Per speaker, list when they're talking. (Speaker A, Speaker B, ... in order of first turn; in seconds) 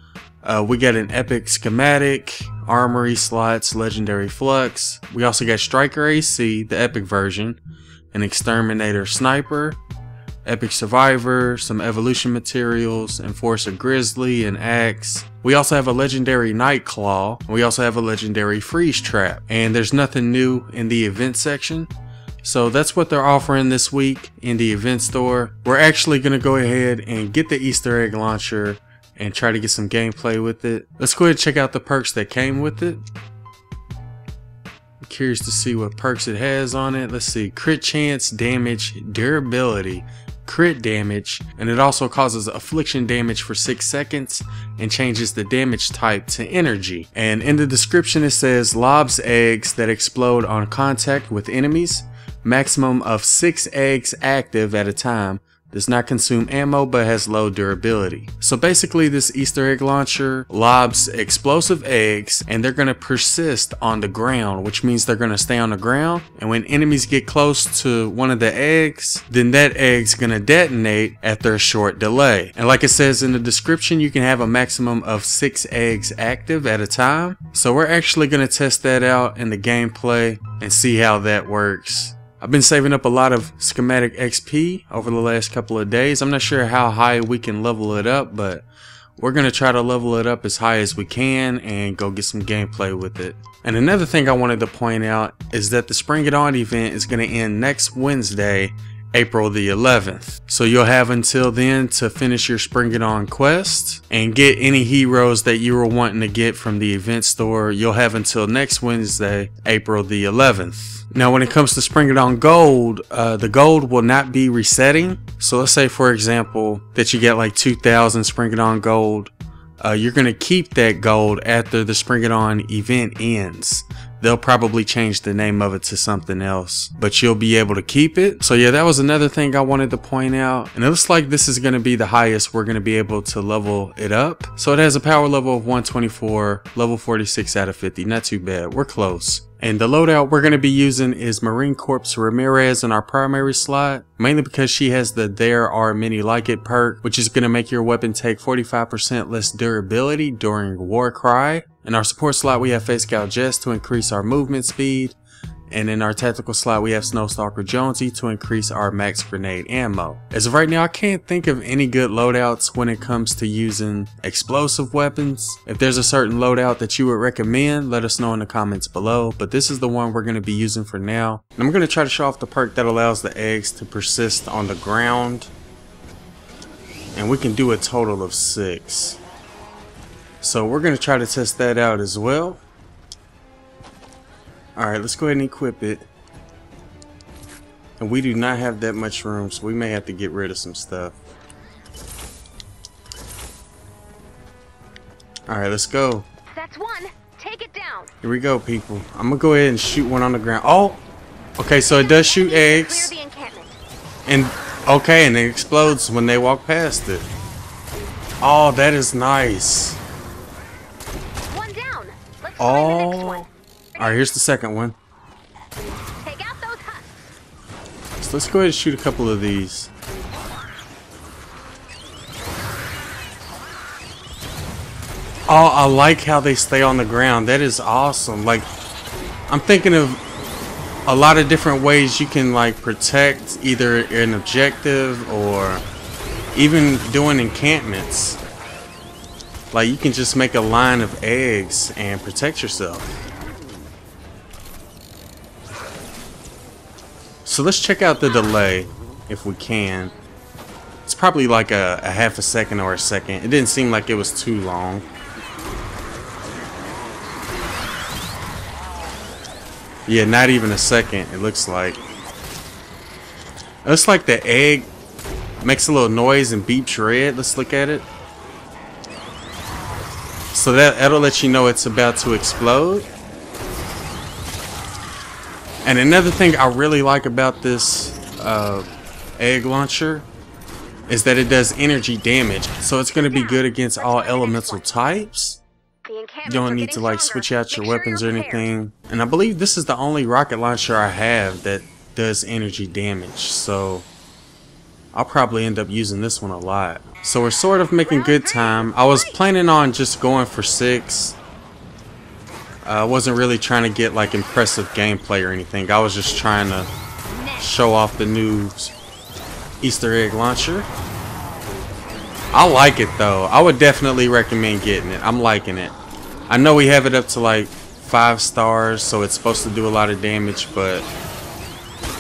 Speaker A: 0.4-7.6, 8.1-9.8, 10.4-21.9, 22.4-33.0, 35.0-88.7, 89.2-155.2, 155.7-175.5, 177.1-179.2, 180.4-182.6, 184.8-186.1, 188.0-191.2, 195.5-196.3, 198.2-201.0, 201.6-203.1, 204.2-207.3, 208.4-210.0, 212.6-215.0, 218.2-219.9, 225.5-228.7, 229.5-230.2, 231.1-235.8, 236.5-238.4, 239.7-243.2, 247.4-250.1, 251.1-255.1, 260.1-262.0, 263.8-264.9, 265.6-268.1, 270.5-273.1, 275.8-280.3, 281.1-285.6, 286.4-294.1, 295.1-301.4, 302.8-306.9, 307.6-308.9, 309.8-310.9, 312.5-316.0, 316.5-321.1
Speaker B: 196.5-198.1, 201.9-203.8, 211.5-214.2, 216.2-217.1, 283.1-284.9, 286.0-288.7, 298.1-299.4